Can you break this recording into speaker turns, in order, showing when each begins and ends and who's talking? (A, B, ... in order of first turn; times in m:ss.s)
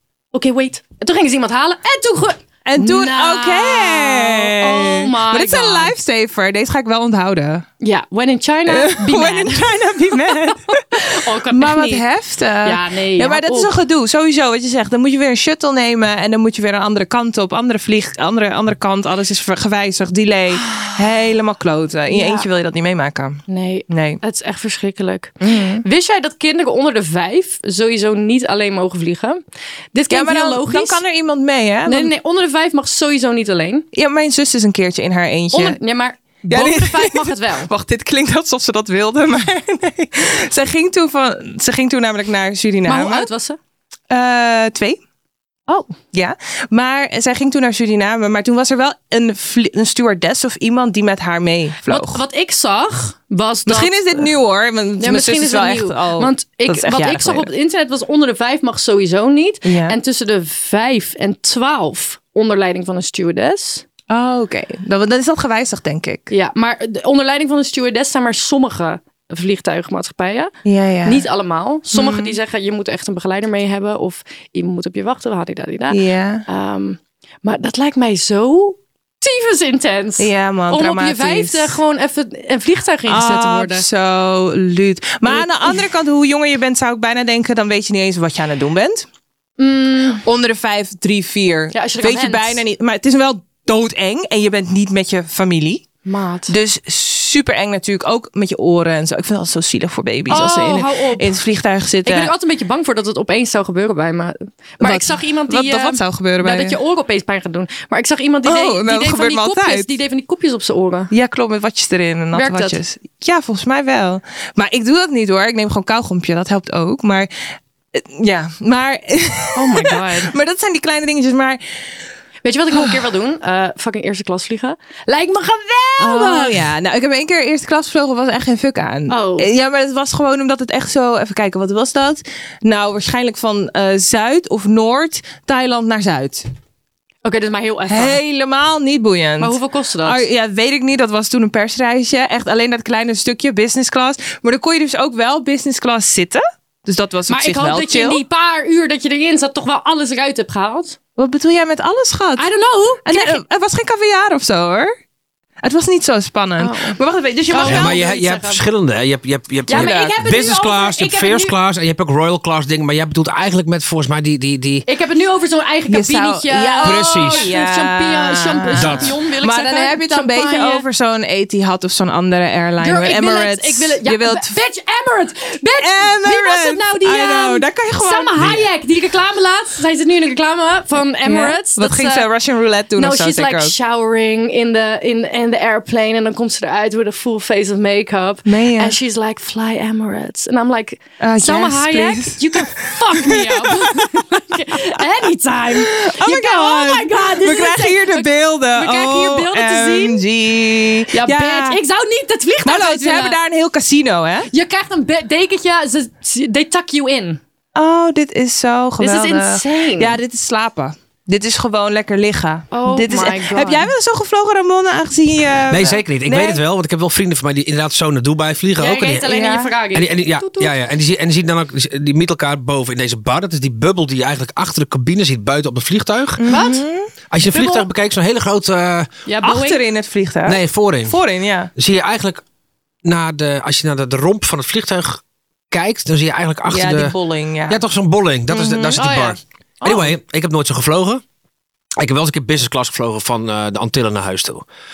0:00.3-0:05.9 A
0:02.6-0:07.6 B
0:07.8-0:12.0 A
0:08.7-0:24.2 B
0:12.6-0:13.8 A
0:20.6-0:20.9 A
0:22.1-0:22.5 A
0:23.5-0:29.4 A
0:25.4-0:25.8 B
0:29.9-0:31.0 A
0:30.1-0:32.1 B
0:31.9-0:33.9 A
0:33.9-0:35.8 B
0:35.5-0:37.7 A
0:36.5-0:43.3 B
0:42.8-0:43.6 A
0:44.1-0:45.0 B
0:45.7-0:45.9 A
0:46.1-0:52.2 B
0:51.9-0:54.3 A
0:53.6-0:57.5 B
0:55.0-1:03.8 A
0:59.6-1:00.0 B
1:04.1-1:06.3 B
1:06.3-1:10.5 A
1:10.6-1:11.2 B
1:11.0-1:23.8 A
1:11.9-1:12.4 B
1:15.9-1:16.4 B
1:20.2-1:21.8 B
1:23.1-1:29.0 B
1:25.2-1:25.8 A
1:29.6-1:30.2 A
1:30.2-1:35.9 B
1:31.7-1:32.6 A
1:36.0-1:36.5 A
1:36.5-1:42.3 B
1:40.3-1:41.3 A
1:42.0-1:51.1 A
1:44.8-1:46.8 B
1:48.4-1:49.9 B
1:51.1-1:57.3 B
1:52.3-1:52.8 A
1:57.9-2:01.6 B
1:59.5-2:00.3 A
2:02.4-2:06.6 A
2:02.7-2:03.0 B
2:06.0-2:16.4 B
2:09.1-2:09.5 A
2:17.2-2:18.2 A
2:17.9-2:28.2 B
2:19.4-2:20.2 A
2:27.3-2:31.0 A
2:31.2-2:32.5 B
2:32.4-2:33.4 A
2:33.0-2:34.9 B
2:35.6-2:38.0 B
2:36.6-2:37.0 A
2:37.5-2:38.6 A
2:37.6-2:44.8 C
2:39.7-2:41.5 A
2:39.7-2:40.2 B
2:44.9-2:50.8 A
2:45.9-2:54.6 B
2:46.8-2:47.5 C
2:48.8-2:49.1 C
2:52.8-3:02.3 A
2:55.8-2:58.5 B
3:01.2-3:03.7 B
3:03.0-3:20.2 A
3:08.4-3:08.9 B
3:11.2-3:15.0 B
3:15.7-3:21.8 B
3:21.1-3:23.4 A
3:22.6-3:24.5 B
3:24.5-3:27.4 A
3:27.8-3:36.6 B
3:29.0-3:30.2 A
3:32.7-3:33.9 A
3:35.7-3:39.3 C
3:38.8-3:40.7 A
3:39.3-3:39.7 B
3:39.9-3:46.5 C
3:46.4-3:47.1 B
3:46.5-3:46.8 A
3:47.3-3:49.1 C
3:47.5-3:47.9 A
3:49.3-3:49.8 A
3:49.4-3:51.7 B
3:50.4-3:51.2 C
3:51.8-3:52.4 C
3:53.0-3:57.1 C
3:56.7-3:57.8 B
3:57.7-4:01.2 C
3:58.5-3:59.0 B
3:59.0-4:00.1 A
4:02.0-4:04.6 C